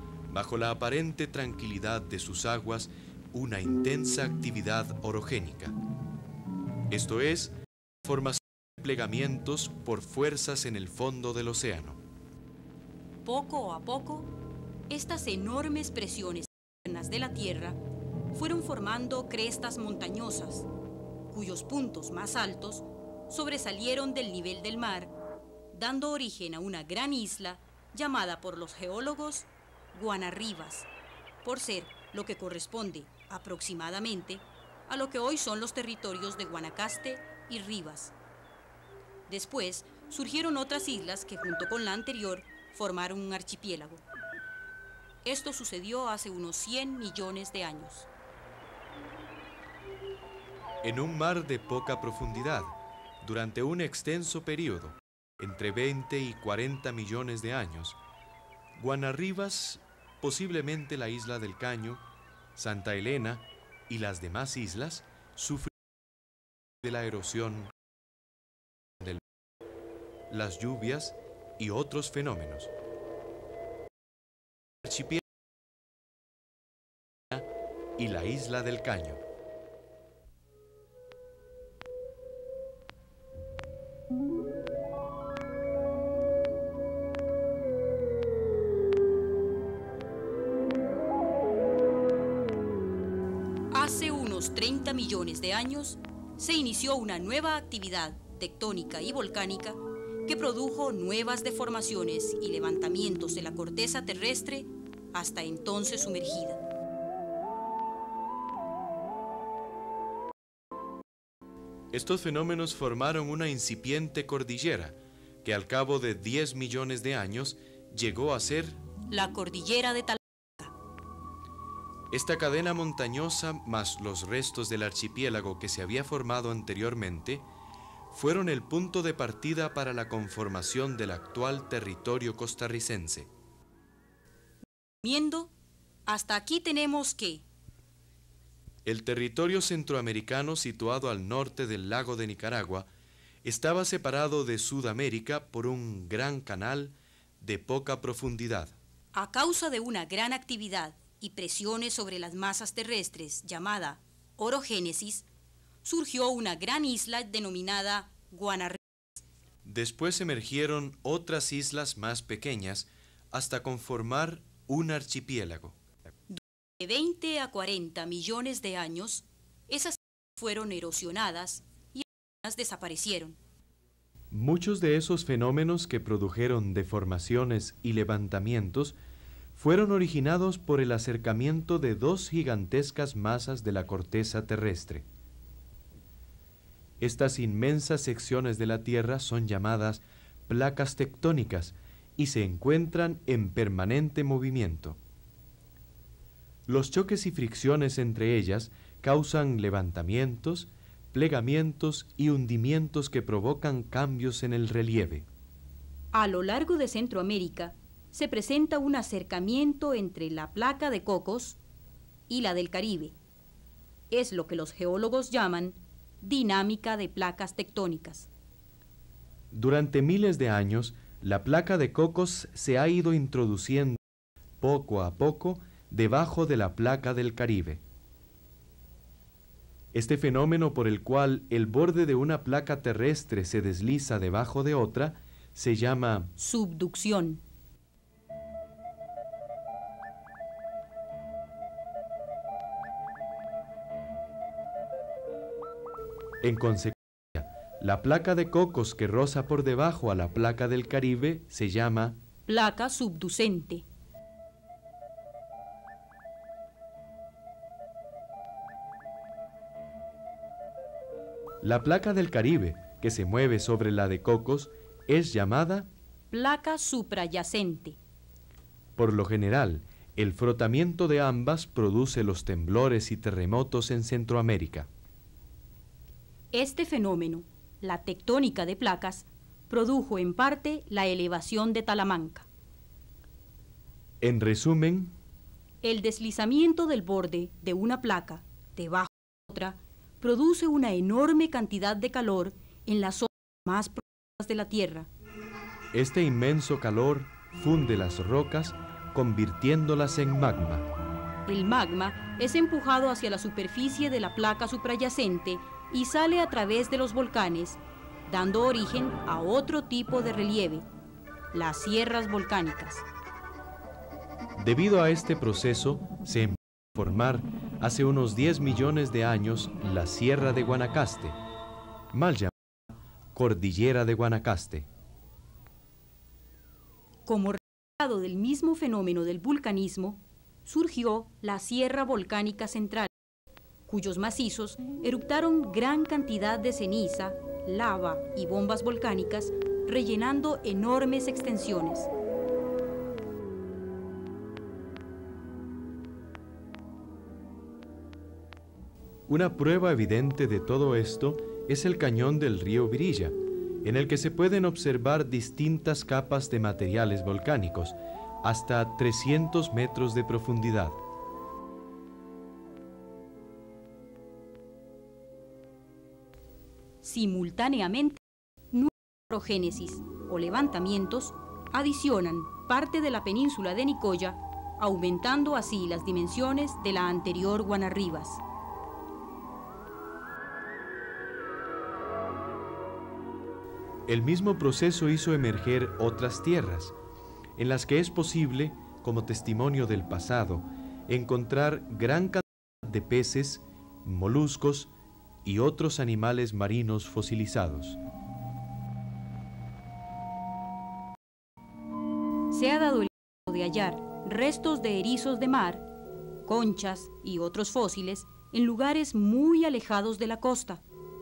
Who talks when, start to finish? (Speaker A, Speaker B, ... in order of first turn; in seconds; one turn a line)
Speaker A: 0.3-5.8
Speaker A: 6.9-12.0
Speaker B: 13.2-14.3
Speaker B: 14.9-17.8
Speaker B: 18.3-20.7
Speaker B: 21.3-25.1
Speaker B: 25.7-30.9
Speaker B: 31.4-38.1
Speaker B: 39.3-44.0
Speaker B: 45.2-48.1
Speaker A: 50.8-58.0
Speaker A: 58.8-62.0
Speaker A: 62.5-65.7
Speaker A: 66.8-67.7
Speaker A: 70.3-72.7
Speaker A: 74.8-75.2
Speaker A: 77.3-79.2
Speaker B: 93.7-106.6
Speaker A: 111.9-118.8
Speaker B: 119.1-120.7
Speaker A: 122.1-127.5
Speaker A: 128.1-133.3
Speaker B: 135.0-135.5
Speaker B: 136.1-137.4
Speaker A: 138.8-142.9
Speaker A: 143.4-148.7
Speaker B: 149.1-155.2
Speaker B: 155.8-159.2
Speaker A: 159.6-165.8
Speaker B: 166.3-173.4
Speaker A: 174.3-179.0
Speaker A: 179.5-185.1
Speaker A: 187.0-195.0
Speaker A: 196.7-205.2
Speaker B: 206.1-211.6
Speaker B: 212.3-213.2
Speaker B: 214.1-218.3
Speaker A: 219.5-224.0
Speaker A: 224.6-227.8
Speaker A: 229.9-236.3
Speaker B: 236.4-237.4
Speaker A: 246.4-252.2
Speaker B: 252.5-253.8
Speaker A: 261.6-265.9
Speaker B: 266.3-268.0
Speaker A: 268.9-274.9
Speaker B: 276.5-282.5
Speaker A: 284.2-285.1
Speaker B: 285.8-295.1
Speaker A: 295.9-300.9
Speaker B: 301.5-310.9
Speaker B: 311.5-313.1
Speaker A: 314.6-321.4
Speaker A: 322.1-322.5
Speaker A: 323.3-324.9
Speaker B: 327.2-333.1
Speaker B: 333.9-342.1
Speaker A: 349.3-361.0
Speaker B: 367.0-368.2
Speaker B: 368.7-378.4
Speaker A: 384.1-386.9
Speaker A: 387.6-394.9
Speaker A: 395.4-398.0
Speaker B: 402.5-405.9
Speaker B: 406.4-410.8